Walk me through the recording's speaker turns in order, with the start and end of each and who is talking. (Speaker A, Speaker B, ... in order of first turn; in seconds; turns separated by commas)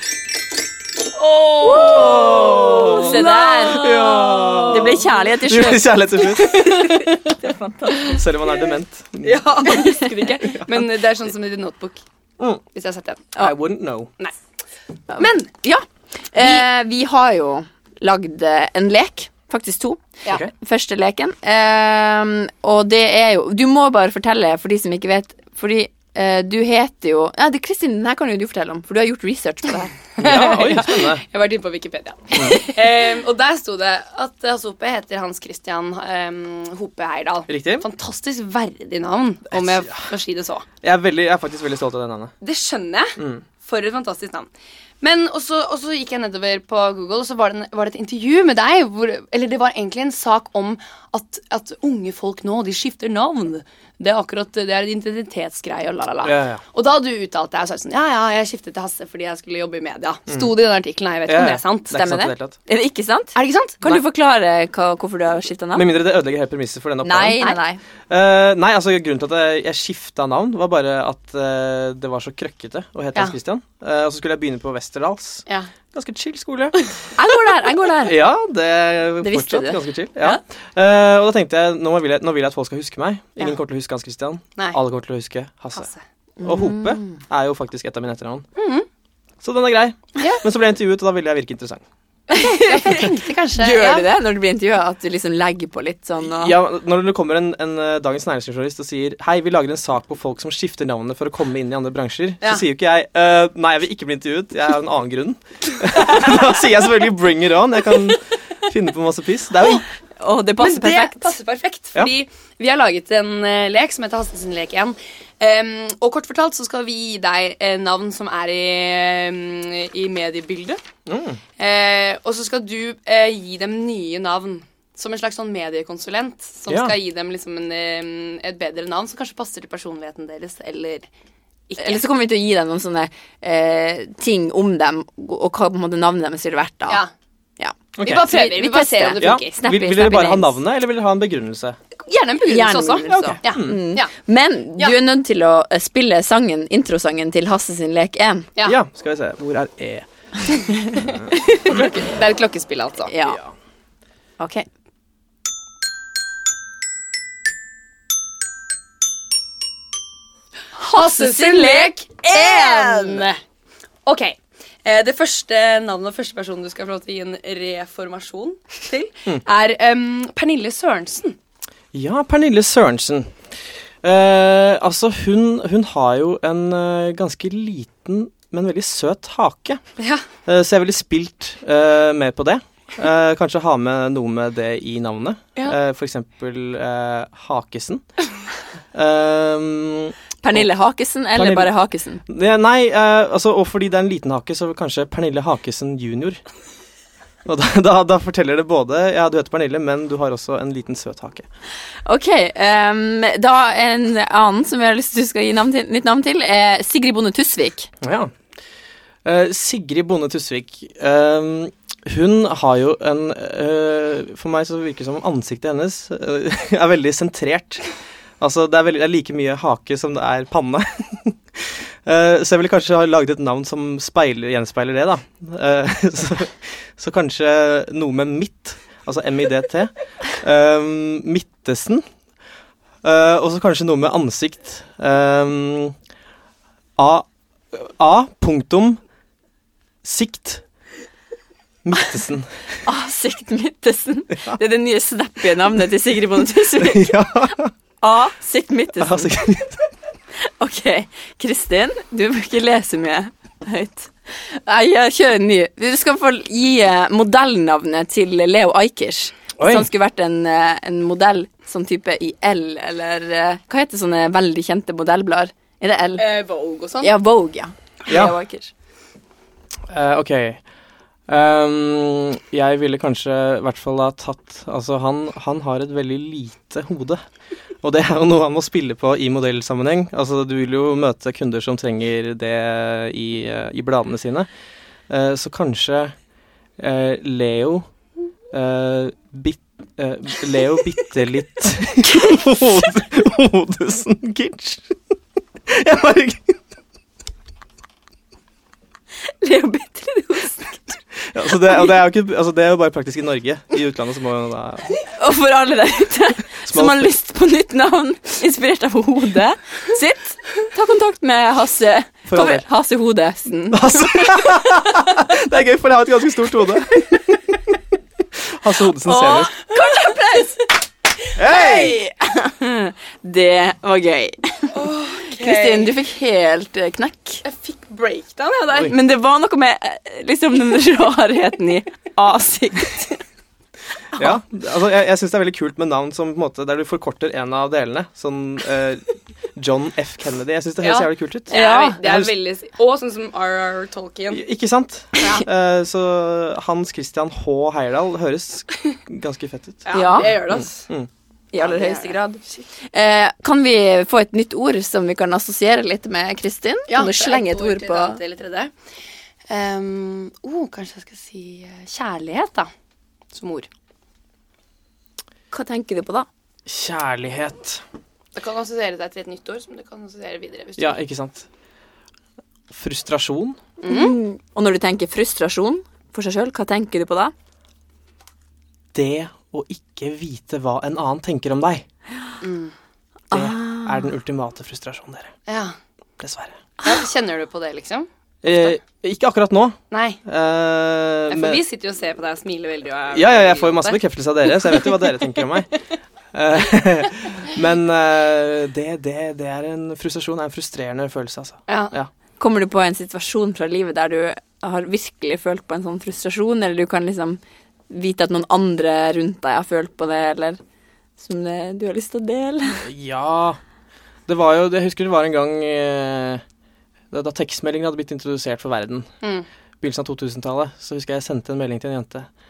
Speaker A: 1.2-5.1, Speaker B: 1.6-7.3, Speaker C: 1.6-5.9, Speaker A: 6.4-8.2, Speaker C: 7.7-8.0, Speaker B: 8.0-9.9, Speaker A: 9.2-12.0, Speaker B: 10.5-10.8, Speaker A: 12.7-13.4, Speaker B: 13.4-14.1, Speaker C: 15.1-30.0, Speaker A: 15.2-15.5, Speaker A: 16.4-16.6, Speaker B: 30.2-31.2, Speaker A: 30.2-40.6, Speaker B: 32.3-32.6, Speaker B: 37.5-37.8, Speaker B: 39.5-40.1, Speaker B: 40.8-42.3, Speaker A: 42.4-44.5, Speaker B: 43.2-43.4, Speaker A: 45.0-62.0, Speaker B: 56.2-56.6, Speaker B: 61.3-62.5, Speaker C: 61.9-65.8, Speaker A: 63.3-63.9, Speaker B: 65.7-67.4, Speaker C: 67.0-67.8, Speaker B: 68.1-76.8, Speaker C: 77.2-78.2, Speaker B: 78.0-85.9, Speaker C: 79.2-79.8, Speaker A: 85.8-86.0, Speaker C: 86.4-87.2, Speaker B: 86.4-88.4, Speaker A: 88.5-88.9, Speaker B: 89.4-91.8, Speaker C: 92.3-96.5, Speaker A: 92.3-94.1, Speaker B: 96.2-109.8, Speaker C: 110.2-111.3, Speaker A: 110.6-120.8, Speaker B: 121.0-121.4, Speaker A: 121.6-131.1, Speaker B: 126.7-127.0, Speaker A: 131.7-132.0, Speaker C: 131.8-137.0, Speaker C: 137.6-140.6, Speaker B: 138.0-138.3, Speaker A: 138.0-139.5, Speaker B: 139.2-141.8, Speaker A: 142.1-144.1, Speaker C: 142.4-148.5, Speaker B: 143.1-143.8, Speaker B: 148.6-150.1, Speaker B: 150.9-151.3, Speaker C: 151.4-152.0, Speaker A: 151.6-153.1, Speaker C: 153.1-153.4, Speaker C: 154.4-154.7, Speaker C: 160.8-163.3, Speaker A: 160.8-163.4, Speaker A: 164.1-171.3, Speaker B: 171.9-179.8, Speaker A: 180.0-180.2, Speaker B: 180.4-188.0, Speaker B: 188.9-190.7, Speaker C: 190.4-192.2, Speaker B: 191.3-191.7, Speaker B: 192.2-196.4, Speaker B: 197.4-201.4, Speaker C: 202.0-207.9, Speaker B: 208.0-208.3, Speaker B: 209.2-217.8, Speaker B: 218.4-232.0, Speaker B: 233.0-235.9, Speaker B: 237.0-239.0, Speaker B: 240.0-240.6, Speaker B: 241.8-242.6, Speaker C: 242.8-249.4, Speaker B: 246.8-247.7, Speaker B: 249.0-249.8, Speaker C: 250.4-266.2, Speaker B: 259.6-259.9, Speaker A: 266.2-267.1, Speaker C: 267.0-268.7, Speaker B: 268.1-268.3, Speaker B: 269.9-270.6, Speaker B: 271.3-277.2, Speaker B: 277.8-284.5, Speaker B: 285.1-286.1, Speaker B: 286.8-287.9, Speaker B: 288.5-295.1, Speaker C: 292.1-292.4, Speaker B: 295.6-296.6, Speaker C: 299.3-301.0, Speaker B: 301.3-304.9, Speaker C: 305.0-314.6, Speaker B: 306.7-307.1, Speaker B: 312.3-312.6, Speaker B: 313.7-317.7, Speaker B: 318.4-319.5, Speaker C: 319.0-320.6, Speaker A: 319.8-320.1, Speaker B: 321.3-322.0, Speaker A: 321.5-321.9, Speaker C: 321.5-327.4, Speaker A: 324.7-325.9, Speaker A: 327.4-328.9, Speaker C: 328.7-333.2, Speaker B: 334.2-342.3, Speaker A: 340.8-344.4, Speaker C: 341.5-342.0, Speaker B: 344.3-351.1, Speaker A: 349.8-350.9, Speaker C: 349.9-350.3, Speaker C: 351.5-358.2, Speaker A: 351.6-352.6, Speaker A: 356.9-358.7, Speaker A: 359.5-362.7, Speaker A: 363.3-363.7, Speaker C: 365.5-366.3, Speaker B: 366.6-367.8, Speaker A: 368.3-371.0, Speaker B: 370.8-371.5, Speaker B: 372.7-373.6, Speaker C: 373.8-377.3, Speaker A: 373.8-374.1, Speaker B: 378.9-381.8, Speaker A: 382.4-382.7, Speaker C: 383.3-384.1, Speaker B: 383.3-385.3, Speaker A: 385.5-385.7, Speaker B: 386.2-386.6, Speaker A: 386.8-388.1, Speaker B: 388.4-391.6, Speaker A: 389.9-390.2, Speaker A: 391.3-394.0, Speaker B: 393.1-402.1, Speaker A: 401.7-401.9, Speaker C: 402.4-410.6, Speaker C: 411.2-412.8, Speaker B: 412.8-413.6, Speaker B: 414.3-416.4, Speaker B: 417.1-419.1, Speaker B: 419.8-422.3